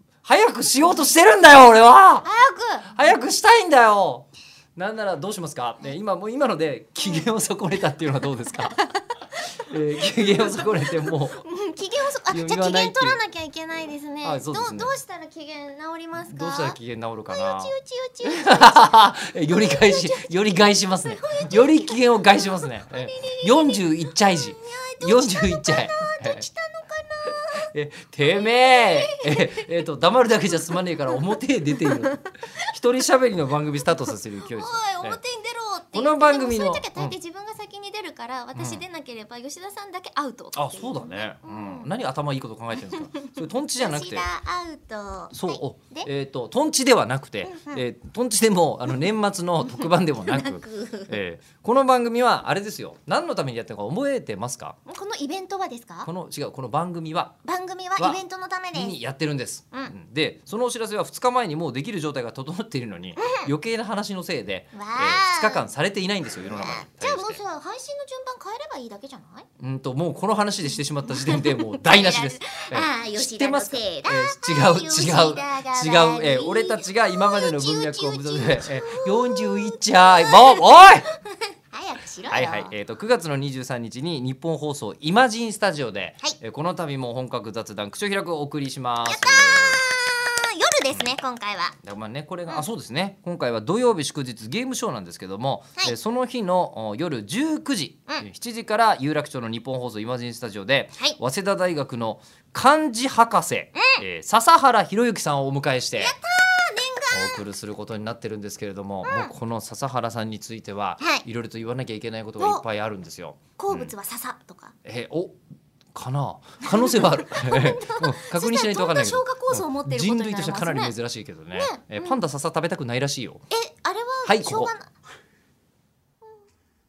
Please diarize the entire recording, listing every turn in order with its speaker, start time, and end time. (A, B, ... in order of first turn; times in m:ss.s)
0:00.2-0:02.3 A
0:02.2-0:02.9 B
0:02.9-0:08.8 A
0:08.8-0:09.4 B
0:09.7-0:11.4 A
0:10.0-0:16.8 B
0:12.3-0:13.2 A
0:14.2-0:15.0 A
0:16.2-0:17.7 A
0:17.3-0:27.7 B
0:18.3-0:26.5 A
0:27.7-0:35.2 A
0:28.2-0:29.7 B
0:30.5-0:32.5 B
0:34.4-0:41.9 B
0:35.9-0:37.2 A
0:38.6-0:38.8 A
0:40.5-0:44.3 A
0:43.8-0:46.1 B
0:45.3-0:54.8 A
0:47.5-0:47.8 B
0:49.7-0:51.2 B
0:54.9-0:56.1 B
0:56.0-0:57.4 A
0:57.4-0:59.0 B
0:58.8-1:07.4 A
1:03.2-1:03.5 B
1:04.7-1:05.7 B
1:06.5-1:09.5 B
1:09.6-1:21.0 A
1:11.1-1:22.7 B
1:22.3-1:29.8 A
1:29.1-1:31.8 B
1:30.9-1:31.2 A
1:31.8-1:46.2 A
1:43.8-1:44.0 B
1:46.0-1:47.4 B
1:47.1-1:54.0 A
1:49.0-1:49.3 B
1:52.4-1:52.6 B
1:53.6-1:54.8 B
1:54.8-1:55.4 A
1:55.9-2:03.4 A
1:56.6-2:01.0 B
2:01.5-2:02.2 B
2:03.5-2:04.9 B
2:04.2-2:04.7 A